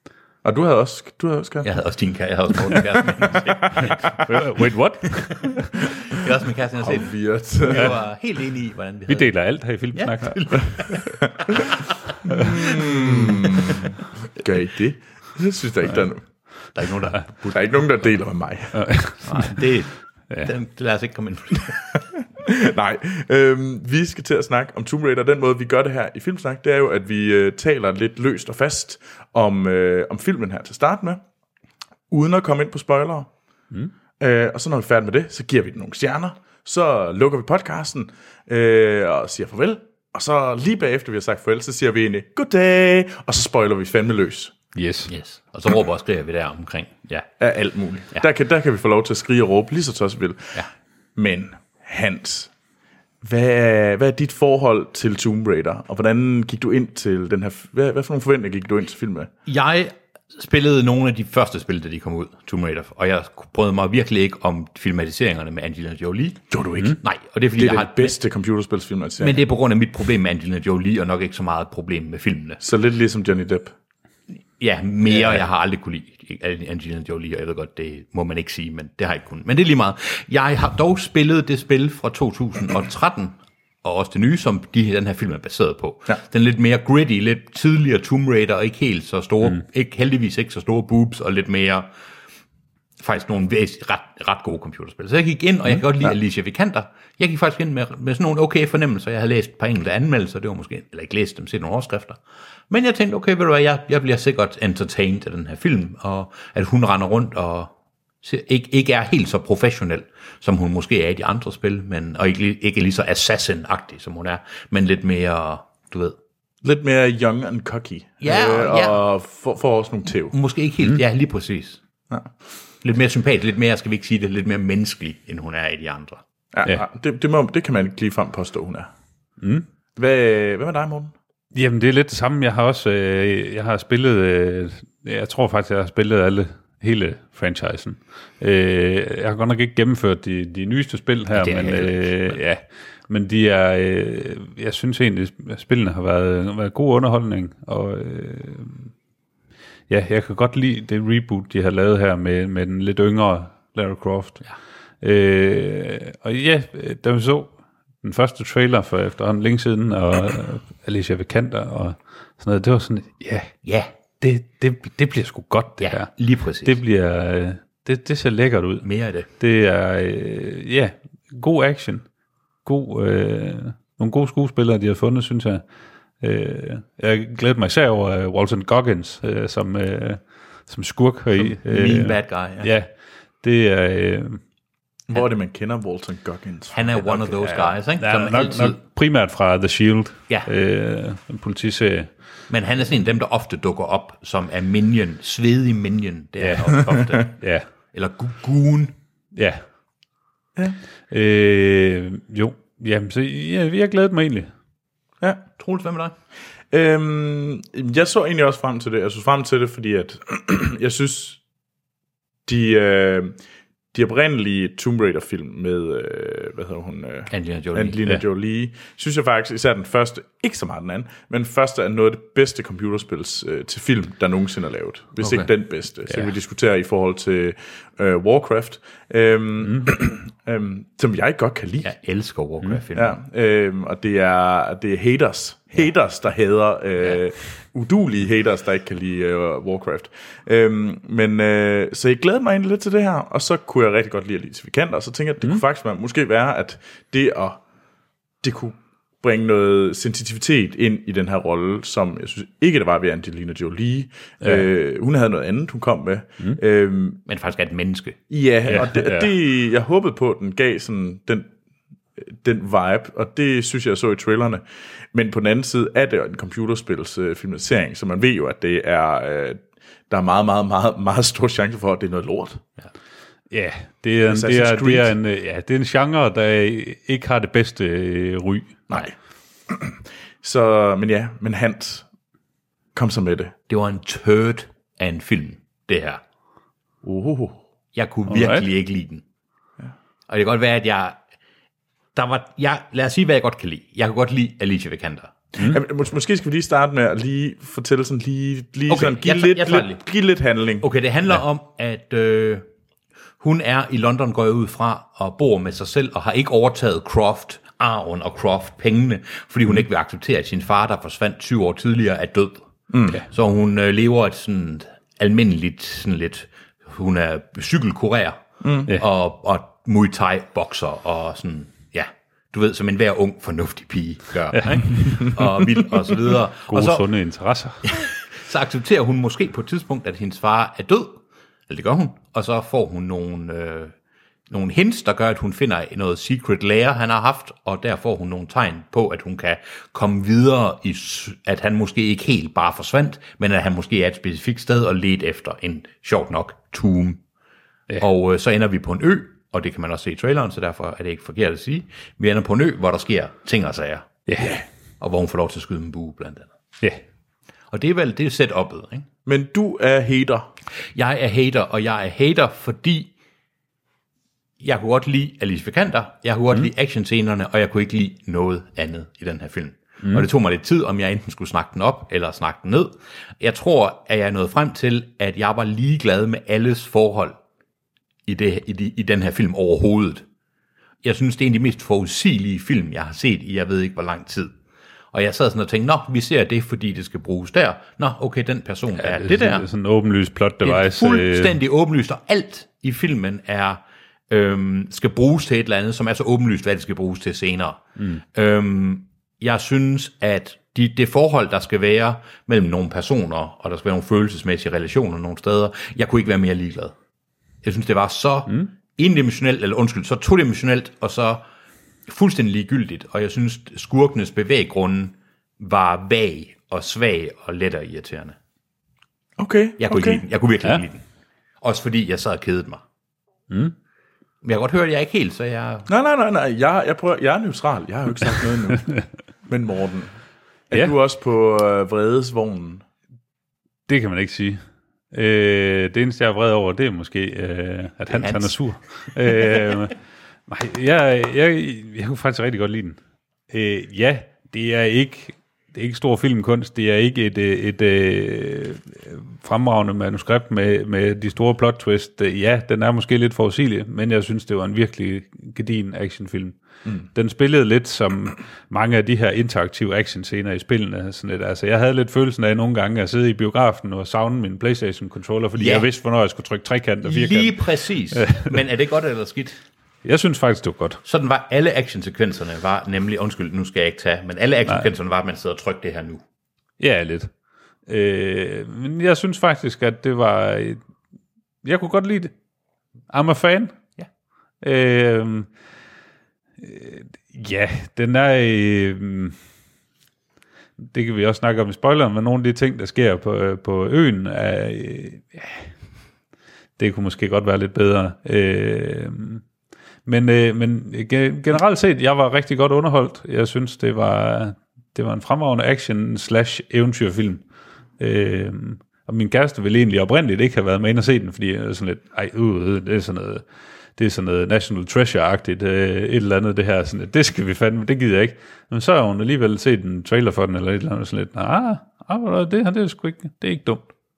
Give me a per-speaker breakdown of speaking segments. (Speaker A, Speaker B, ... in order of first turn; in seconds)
Speaker A: 0.4-1.7, 3.2-4.0, 6.8-8.0, 12.3-16.2, 17.5-18.8, 22.4-31.2, 32.1-33.3, 34.2-44.5, 47.4-50.6, 51.1-52.5, 53.2-59.3, 66.5-67.0, 67.6-69.4, 72.6-73.7, 116.6-120.3, 126.5-128.9, 130.0-131.1, 185.1-186.8, 206.7-211.4, 212.4-213.3, 213.9-231.9, 232.9-247.6, 248.4-257.2, 258.3-261.5, 262.2-272.6, 274.3-275.1, 278.9-279.1, 279.7-282.1, 282.9-283.5, 287.0-287.6, 295.6-300.9, 312.9-313.2, 318.6-318.9, 359.2-360.5, 419.4-420.2, 425.9-428.9, 429.5-430.1, 430.7-432.8
Speaker B: 1.6-4.2, 6.0-9.4, 9.9-12.7, 16.7-17.6, 19.2-21.9, 45.1-47.3, 59.5-68.2, 69.2-72.6, 74.6-91.9, 93.0-102.2, 102.7-107.7, 108.2-116.2, 118.2-119.0, 120.3-121.8, 122.8-126.2, 141.3-142.4, 163.6-163.9, 165.8-166.8, 168.8-169.3, 181.6-182.7, 186.7-188.8, 192.5-197.4, 197.9-198.9, 205.6-206.1, 217.3-218.0, 225.2-225.5, 231.8-233.2, 257.2-258.2, 283.7-286.2, 287.9-289.2, 290.3-291.2, 292.1-295.3, 298.9-300.0, 300.8-302.6, 303.4-312.7, 313.2-327.1, 327.8-333.9, 334.5-347.2, 348.0-354.1, 355.0-356.5, 357.7-359.1, 360.9-363.1, 364.6-377.4, 378.3-380.2, 381.0-384.5, 385.1-389.7, 390.6-397.8, 398.3-406.9, 407.6-411.4, 412.1-418.4, 419.8-421.0, 421.6-422.8, 424.4-425.9, 438.1-438.6, 465.6-465.9, 467.0-469.6, 471.0-476.2
Speaker C: 4.0-5.7, 9.1-10.9, 12.3-13.3, 18.7-19.6, 44.7-45.1, 129.4-129.7, 131.5-148.9, 149.9-154.4, 155.0-163.5, 164.2-166.1, 166.6-168.9, 169.4-172.1, 172.6-175.6, 176.2-182.9, 183.4-184.4, 187.5-192.1, 196.4-197.7, 199.3-199.6, 201.1-204.5, 254.4-254.7, 258.7-259.3, 273.5-278.8, 288.3-288.7, 324.5-325.0, 326.7-327.9, 354.3-354.6, 389.0-391.6, 398.0-398.2, 433.9-434.6, 435.1-439.9, 440.5-443.0, 443.5-468.5, 470.0-471.0, 476.8-477.3, 477.9-480.8, 481.6-482.3, 483.1-483.8, 484.6-485.5, 486.6-489.4, 490.8-495.7, 496.8-499.4, 500.1-507.4, 508.0-513.4, 514.0-523.9